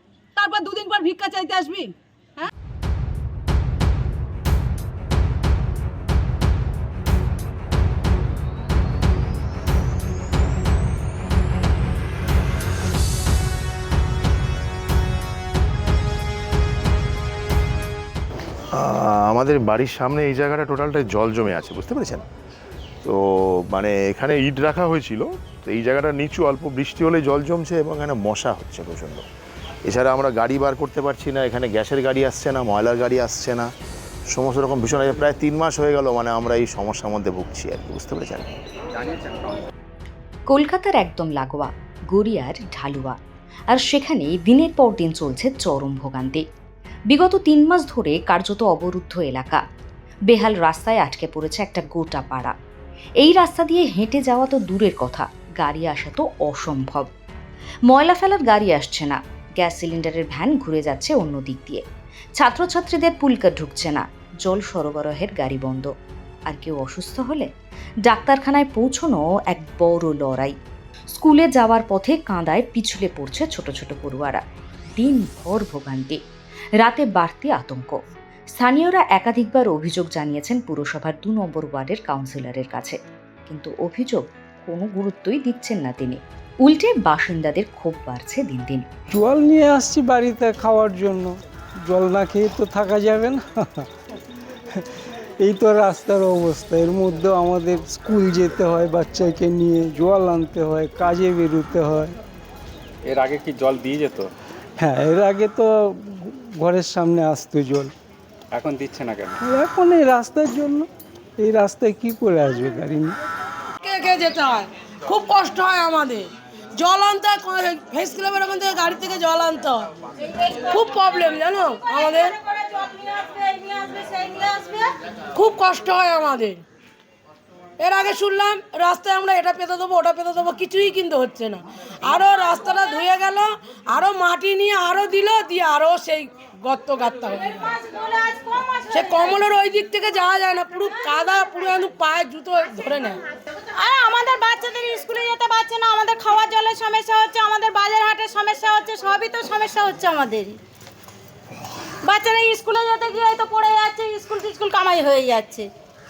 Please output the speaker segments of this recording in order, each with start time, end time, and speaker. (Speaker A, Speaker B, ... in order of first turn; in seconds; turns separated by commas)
Speaker A: 0.3-2.5, Speaker B: 18.8-22.2, Speaker B: 23.0-29.2, Speaker B: 29.9-33.7, Speaker B: 34.3-38.5, Speaker C: 40.5-43.2, Speaker C: 43.7-46.4, Speaker C: 47.1-49.6, Speaker C: 50.3-52.5, Speaker C: 53.2-57.1, Speaker C: 57.9-61.8, Speaker C: 62.4-65.9, Speaker C: 66.5-67.5, Speaker C: 68.1-70.5, Speaker C: 71.2-74.4, Speaker C: 75.0-76.2, Speaker C: 76.8-78.0, Speaker C: 78.5-83.0, Speaker C: 83.5-88.8, Speaker D: 89.2-91.3, Speaker D: 91.8-93.4, Speaker D: 95.4-102.1, Speaker E: 103.1-104.3, Speaker D: 104.8-105.7, Speaker D: 106.3-107.8, Speaker E: 108.5-109.4, Speaker D: 109.5-110.8, Speaker D: 111.4-113.1, Speaker F: 113.8-116.2, Speaker F: 116.8-119.8, Speaker G: 120.5-124.9, Speaker F: 120.7-122.1, Speaker F: 125.4-126.6, Speaker F: 127.8-137.4, Speaker G: 132.4-132.7, Speaker G: 137.4-139.5, Speaker F: 139.1-143.1, Speaker G: 140.9-141.5, Speaker G: 143.7-150.6, Speaker G: 152.0-155.7